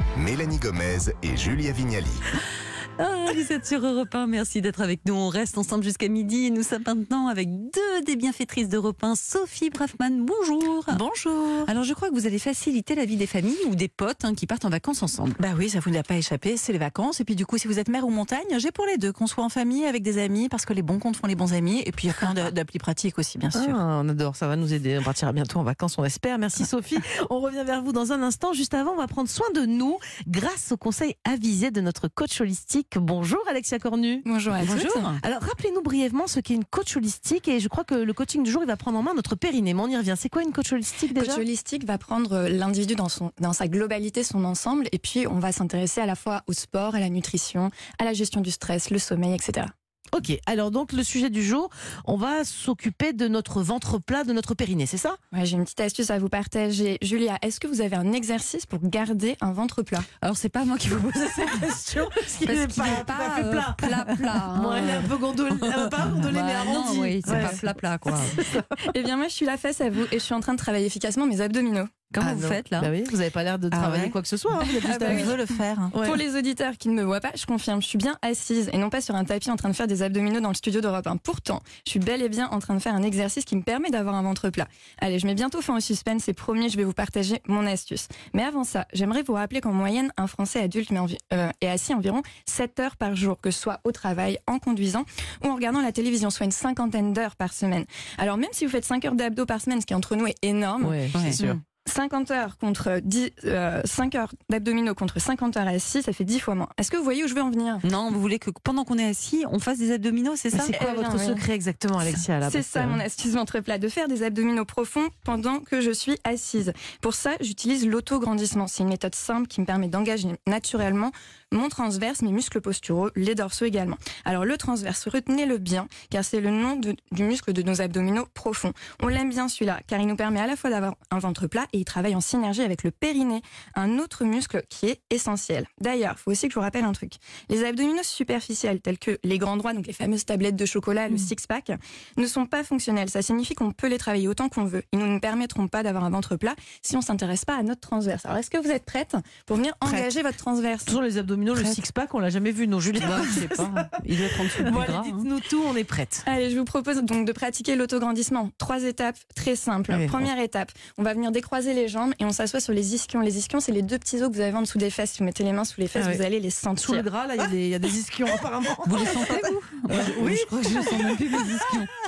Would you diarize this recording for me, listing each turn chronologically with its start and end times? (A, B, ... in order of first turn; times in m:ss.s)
0:00.2-0:02.1 A
0:03.0-0:11.0 B
0:10.9-0:11.7 C
0:11.6-0:15.4 B
0:15.4-0:23.8 C
0:23.5-0:34.2 D
0:34.2-0:35.1 E
0:34.6-0:35.2 B
0:35.2-0:41.4 D
0:41.1-0:49.7 E
0:50.1-0:55.2 D
0:55.3-1:00.1 E
1:00.2-1:08.4 B
1:01.1-1:07.6 D
1:08.2-1:08.8 D
1:08.9-1:11.9 E
1:12.1-1:12.9 B
1:12.2-1:15.3 D
1:13.7-1:14.2 C
1:14.6-1:15.4 E
1:15.0-1:16.0 C
1:15.9-1:16.2 D
1:16.0-1:47.8 E
1:40.8-1:41.6 D
1:41.1-1:41.6 B
1:47.8-1:50.7 B
1:50.5-1:53.0 D
1:50.6-1:51.4 E
1:52.4-2:31.0 E
2:29.8-2:30.1 C
2:30.9-2:34.0 D
2:33.0-2:35.3 B
2:34.6-2:36.2 D
2:36.2-2:47.1 E
2:39.9-2:40.3 D
2:45.9-2:46.2 D
2:46.8-2:51.4 D
2:48.8-2:51.9 B